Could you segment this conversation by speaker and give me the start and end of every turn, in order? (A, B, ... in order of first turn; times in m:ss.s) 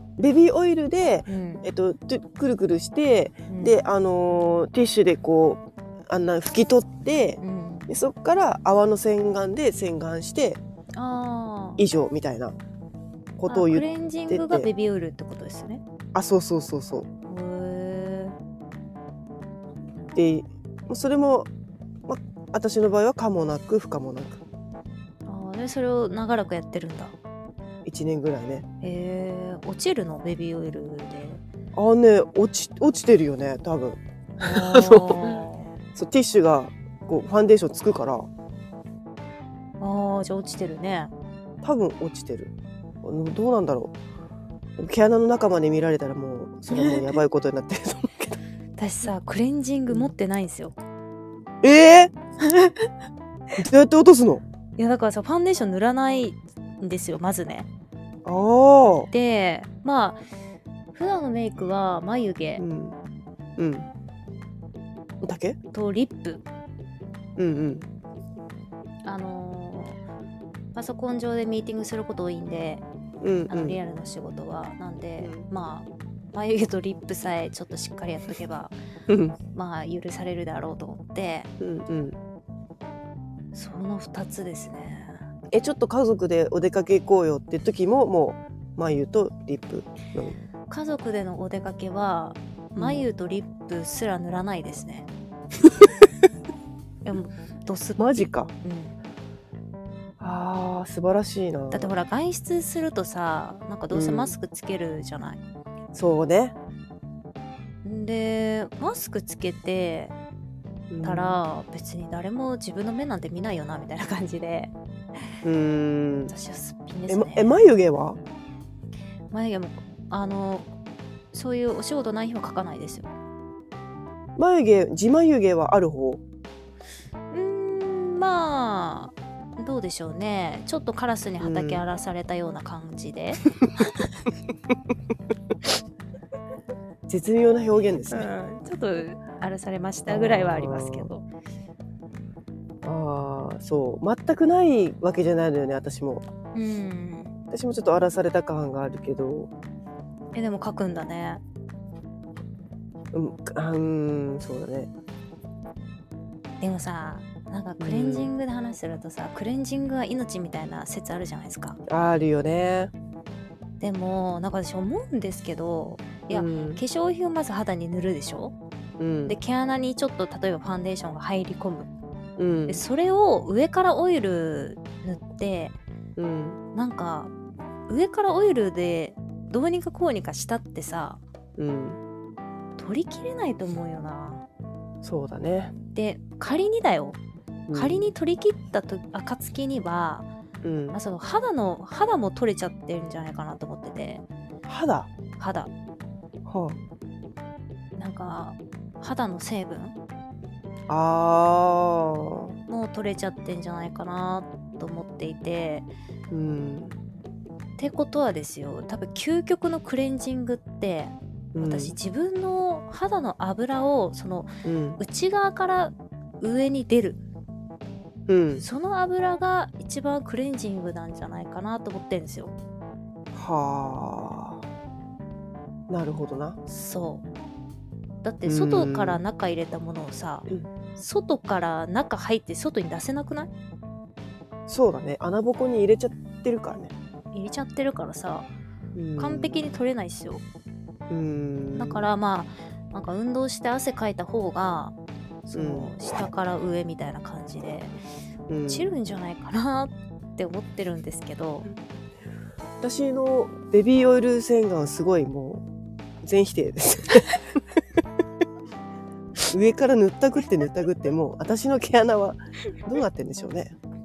0:00.2-0:10.6 A
0:01.3-0:01.7 B
0:03.5-0:03.8 B
0:07.4-0:07.9 B
0:11.0-0:11.8 B
0:11.8-0:12.6 A
0:13.4-0:14.7 A
0:13.5-0:15.8 B
0:16.1-0:17.1 A
0:17.3-0:18.4 B
0:20.2-0:21.5 A
0:22.1-0:24.4 A
0:25.3-0:27.2 B
0:27.8-0:28.7 A
0:28.8-0:31.4 B
0:31.8-0:35.4 A
0:34.4-0:35.7 B
0:35.9-0:38.3 A
0:39.8-0:41.1 B
0:41.6-0:42.5 A
0:43.0-0:43.9 A
0:44.8-0:48.4 A
0:46.7-0:47.1 B
0:48.8-0:50.8 B
0:51.6-0:52.1 A
0:53.6-0:54.4 A
0:54.8-0:57.7 B
0:58.2-0:59.1 A
0:59.1-1:00.2 B
1:00.9-1:02.6 B
1:02.6-1:03.0 A
1:03.6-1:03.9 A
1:05.2-1:05.6 A
1:05.7-1:06.4 B
1:07.4-1:07.9 A
1:09.0-1:10.0 B
1:10.7-1:12.8 B
1:13.2-1:13.8 A
1:13.5-1:18.7 B
1:15.2-1:15.5 A
1:19.1-1:19.4 A
1:19.5-1:21.5 B
1:21.6-1:22.2 A
1:23.5-1:25.2 B
1:25.5-1:30.4 A
1:30.7-1:35.1 B
1:32.8-1:33.1 A
1:37.0-1:39.0 B
1:38.0-1:38.5 A
1:40.2-1:41.9 A
1:41.7-1:45.4 B
1:43.9-1:44.3 A
1:45.9-1:46.6 A
1:47.8-1:50.2 B
1:50.9-1:51.4 A
1:51.0-1:54.7 B
1:55.4-1:56.3 A
1:56.3-1:57.6 B
1:57.1-1:58.2 A
1:59.3-2:00.7 B
2:01.3-2:03.1 B
2:04.4-2:06.2 A
2:07.3-2:13.4 B
2:11.4-2:11.8 A
2:17.1-2:18.3 A
2:18.1-2:21.2 B
2:20.1-2:21.1 A
2:22.8-2:26.2 A
2:26.5-2:27.3 B
2:27.5-2:29.5 A
2:30.3-2:31.4 B
2:33.1-2:34.9 A
2:36.6-2:41.8 B
2:37.8-2:38.3 A
2:41.9-2:42.9 A
2:43.8-2:48.6 B
2:46.3-2:46.8 A
2:49.0-2:49.4 A
2:49.3-2:51.9 B
2:52.4-2:52.8 A
2:52.7-2:55.8 B
2:56.2-2:56.6 A
2:56.7-2:57.3 B
2:57.9-3:01.2 B
3:01.6-3:02.0 A
3:02.8-3:04.4 B
3:05.0-3:05.7 A
3:05.9-3:07.2 B
3:07.7-3:08.1 A
3:07.7-3:10.3 B
3:10.6-3:11.0 A
3:10.9-3:14.2 B
3:14.7-3:15.1 A
3:15.4-3:15.7 B
3:16.5-3:16.8 A
3:18.0-3:20.0 B
3:20.9-3:22.5 A
3:22.7-3:25.9 B
3:26.3-3:26.9 A
3:27.8-3:37.2 B
3:31.5-3:31.9 A
3:34.6-3:35.0 A
3:38.3-3:38.6 A
3:38.6-3:42.5 B
3:43.3-3:44.6 A
3:45.9-3:46.6 A
3:46.7-3:47.2 B
3:48.2-3:53.5 B
3:48.5-3:49.2 A
3:54.7-3:56.9 A
3:57.3-3:58.5 B
3:59.0-3:59.7 A
3:59.2-4:00.4 B
4:01.1-4:02.1 A
4:01.8-4:05.0 B
4:05.5-4:08.0 B
4:05.5-4:06.1 A
4:08.5-4:08.9 A
4:08.7-4:11.7 B
4:12.8-4:15.6 A
4:16.2-4:17.4 A
4:19.5-4:23.7 A